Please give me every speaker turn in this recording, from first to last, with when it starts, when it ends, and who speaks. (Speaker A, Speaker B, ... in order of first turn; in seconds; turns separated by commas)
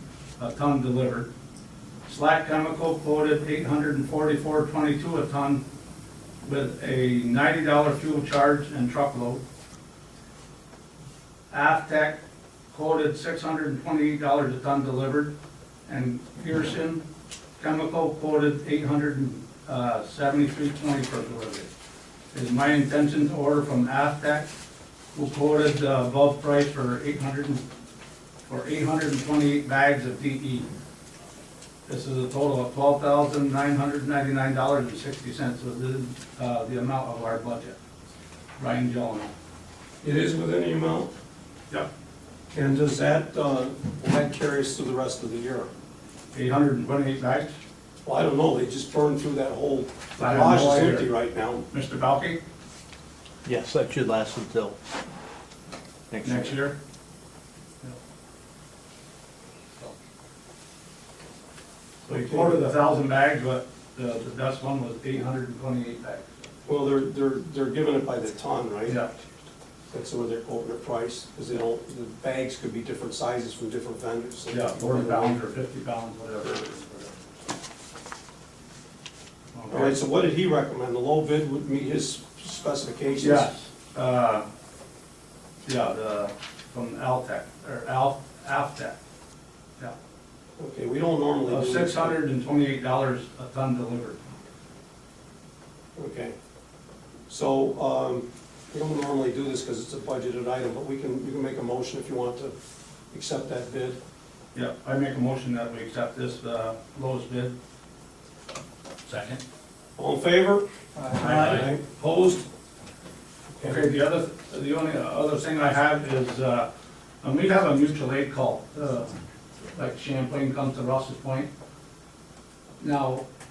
Speaker A: 0.4-1.3, Speaker A: 2.0-5.6, Speaker A: 6.4-9.4, Speaker A: 11.5-12.2, Speaker A: 12.7-15.3, Speaker A: 15.9-17.0, Speaker A: 17.6-21.7, Speaker A: 22.3-24.5, Speaker A: 25.1-27.6, Speaker A: 28.4-30.6, Speaker A: 31.9-37.8, Speaker A: 38.6-39.3, Speaker B: 40.0-41.1, Speaker B: 42.5-45.7, Speaker A: 46.3-47.5, Speaker B: 48.0-51.6, Speaker A: 50.2-51.1, Speaker A: 51.7-52.4, Speaker C: 53.4-54.8, Speaker C: 56.1-56.6, Speaker A: 56.2-56.8, Speaker B: 62.0-62.6, Speaker A: 62.1-66.3, Speaker B: 66.7-69.0, Speaker B: 69.9-75.4, Speaker A: 74.5-77.1, Speaker A: 79.5-80.0, Speaker B: 79.7-83.5, Speaker A: 83.2-84.5, Speaker A: 85.7-89.0, Speaker B: 90.6-92.2, Speaker A: 91.5-94.2, Speaker B: 96.0-96.3, Speaker B: 97.3-102.5, Speaker B: 103.1-104.0, Speaker A: 104.5-107.5, Speaker A: 109.0-109.4, Speaker B: 110.0-110.6, Speaker C: 111.0-111.7, Speaker A: 111.2-111.7, Speaker B: 111.2-112.4, Speaker A: 113.6-116.7, Speaker A: 117.2-119.1, Speaker A: 119.7-121.5, Speaker A: 122.8-123.2